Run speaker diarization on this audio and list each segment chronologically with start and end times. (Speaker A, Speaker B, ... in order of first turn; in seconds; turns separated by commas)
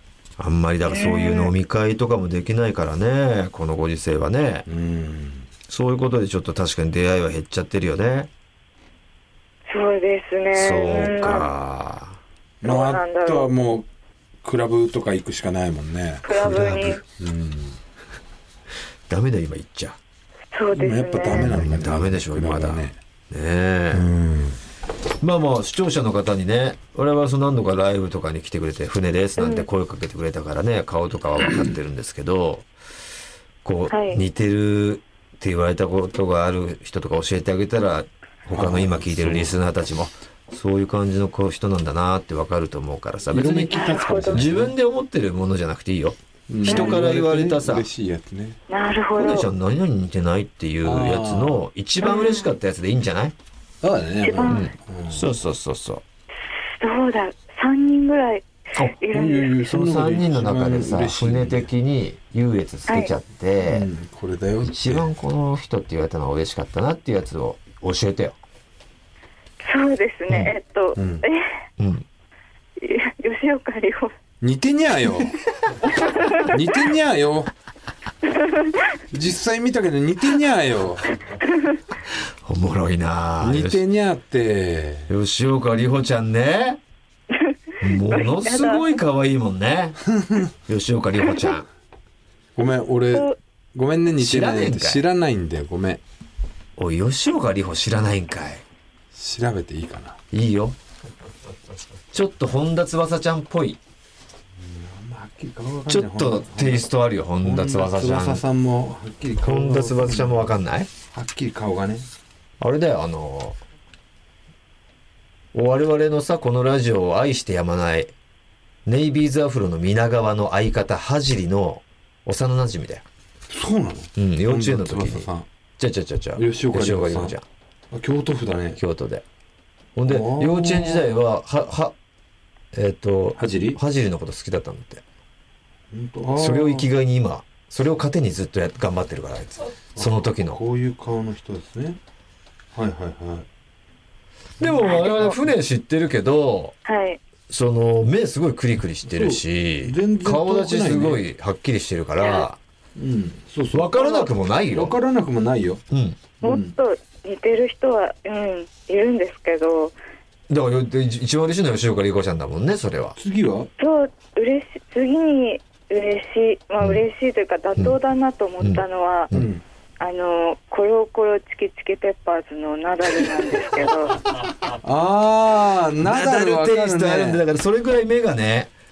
Speaker A: 0.4-4.7, Speaker B: 0.9-1.5, Speaker C: 4.7-5.5, Speaker A: 5.7-8.3, Speaker B: 9.7-11.5, Speaker A: 10.5-12.2, Speaker C: 12.6-13.9, Speaker B: 12.6-13.5, Speaker C: 14.4-17.8, Speaker B: 16.2-17.0, Speaker A: 16.4-16.9, Speaker A: 19.1-20.0, Speaker B: 20.5-21.6, Speaker C: 20.7-23.0, Speaker A: 21.3-24.1, Speaker C: 23.9-24.6, Speaker A: 25.2-32.7, Speaker B: 29.4-29.6, Speaker A: 33.6-47.9, Speaker B: 33.9-34.2, Speaker C: 38.5-39.5, Speaker C: 43.3-44.7, Speaker B: 43.7-44.5, Speaker C: 46.5-48.6, Speaker B: 46.7-47.0, Speaker B: 48.7-49.5, Speaker A: 49.1-53.3, Speaker C: 50.8-51.6, Speaker B: 52.0-52.5, Speaker C: 53.8-55.3, Speaker B: 54.2-54.7, Speaker A: 54.4-56.0, Speaker B: 56.8-59.5, Speaker C: 59.1-61.7, Speaker A: 59.6-63.9, Speaker C: 63.6-65.1, Speaker A: 64.6-68.4, Speaker B: 69.6-71.5, Speaker A: 70.3-70.5, Speaker C: 71.0-71.2, Speaker A: 71.8-72.0, Speaker B: 72.8-74.1, Speaker C: 74.4-75.4, Speaker B: 76.2-76.4, Speaker C: 76.4-77.5, Speaker B: 78.3-78.8, Speaker C: 79.1-81.2, Speaker A: 82.4-83.8, Speaker C: 83.4-85.1, Speaker A: 85.1-86.8, Speaker B: 87.3-89.0, Speaker A: 87.8-90.0, Speaker C: 90.1-90.5, Speaker A: 90.5-91.7, Speaker C: 92.5-96.0, Speaker A: 94.2-95.0, Speaker A: 96.8-98.6, Speaker C: 99.1-100.2, Speaker A: 100.3-100.8, Speaker A: 102.1-103.8, Speaker C: 104.6-106.9, Speaker A: 105.9-108.4, Speaker C: 107.4-110.5, Speaker A: 109.4-110.9, Speaker C: 111.1-112.1, Speaker A: 112.6-113.6, Speaker A: 115.5-118.1, Speaker A: 118.8-123.0, Speaker C: 123.5-125.5, Speaker A: 124.2-127.4, Speaker C: 126.3-127.3, Speaker C: 127.9-128.8, Speaker A: 128.8-129.2, Speaker A: 129.9-131.9, Speaker C: 130.1-131.1, Speaker A: 132.7-135.0, Speaker C: 133.4-133.8, Speaker C: 135.9-136.9, Speaker A: 136.4-140.6, Speaker C: 139.9-142.0, Speaker C: 142.7-143.5, Speaker A: 144.6-146.7, Speaker C: 144.7-145.5, Speaker B: 146.8-147.2, Speaker A: 147.5-152.6, Speaker C: 149.1-151.2, Speaker B: 152.2-152.4, Speaker C: 152.9-155.8, Speaker A: 153.7-154.9, Speaker A: 155.9-156.2, Speaker C: 156.4-156.7, Speaker B: 156.4-159.9, Speaker A: 160.5-163.2, Speaker C: 163.2-163.7, Speaker B: 163.8-169.3, Speaker A: 168.6-169.5, Speaker C: 169.3-169.6, Speaker B: 170.0-174.2, Speaker C: 174.8-177.4, Speaker A: 176.0-178.7